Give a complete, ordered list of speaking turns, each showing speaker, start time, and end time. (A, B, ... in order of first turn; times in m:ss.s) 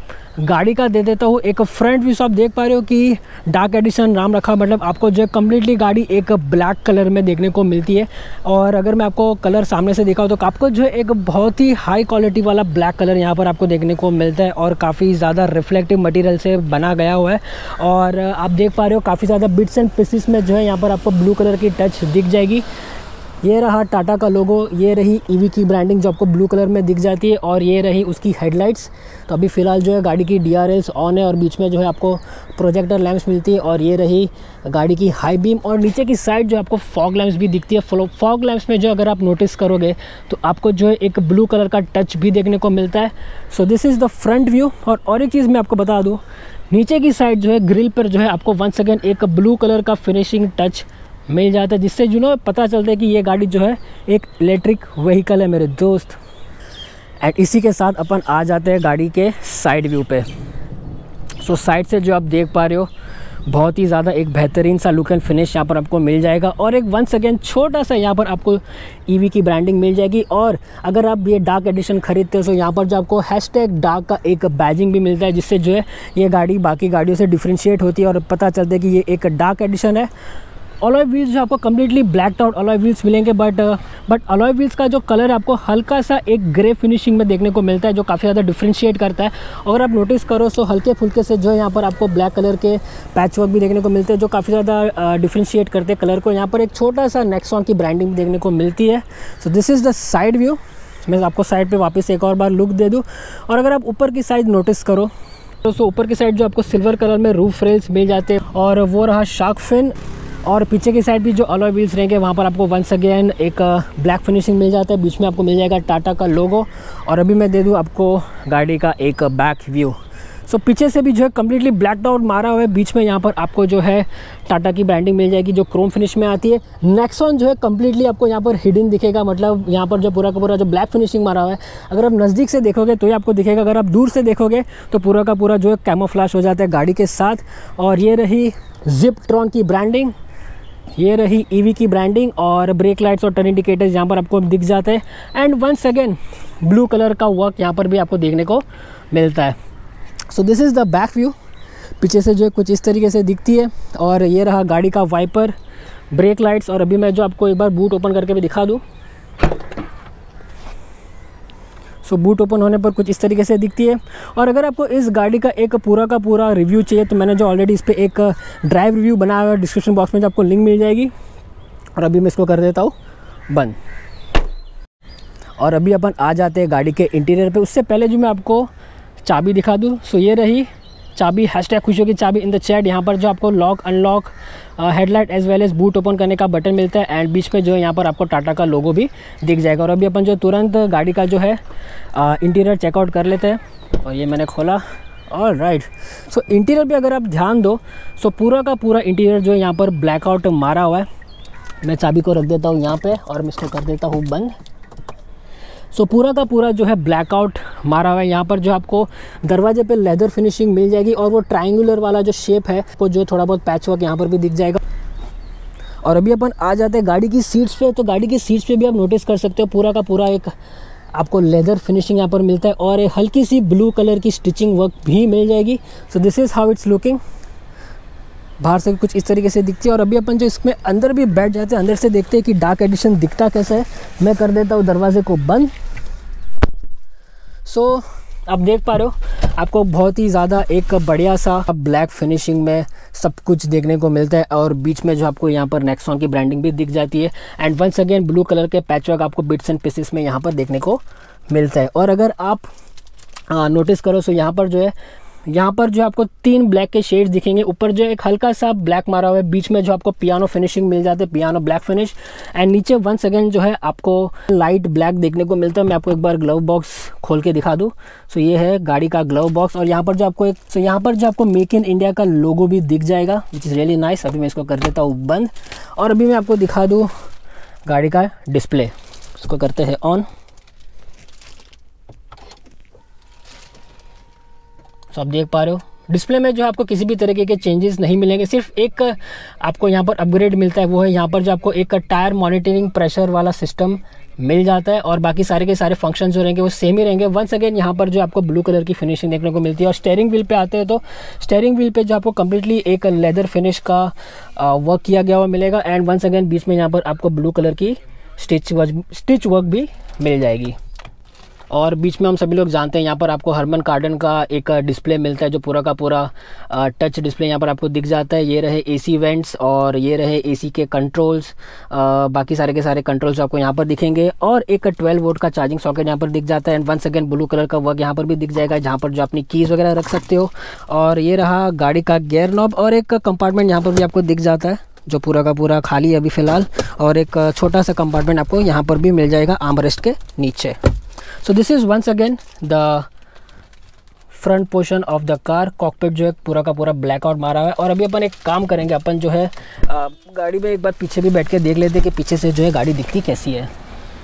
0:00.4-0:22.6 A
0:23.4-0:56.2 A
0:57.2-1:00.2 A
1:01.4-1:02.9 A
1:03.5-1:20.1 A
1:20.8-1:45.1 A
1:45.6-2:20.1 A
2:21.0-2:29.5 A
2:30.3-2:31.3 A
2:32.0-2:35.6 A
2:36.1-2:38.8 A
2:42.0-2:51.1 A
2:52.0-2:52.9 A
2:53.5-2:53.8 A
2:55.6-2:58.7 A
2:59.2-3:11.6 A
3:12.1-3:21.1 A
3:21.8-3:24.5 A
3:25.9-3:34.8 A
3:36.0-3:40.5 A
3:41.1-3:47.2 A
3:48.6-3:55.7 A
3:57.6-4:12.6 A
4:13.5-4:14.9 A
4:15.5-4:37.1 A
4:37.8-4:40.2 A
4:45.1-5:10.8 A
5:11.7-5:40.8 A
5:41.4-5:43.1 A
5:44.3-5:53.7 A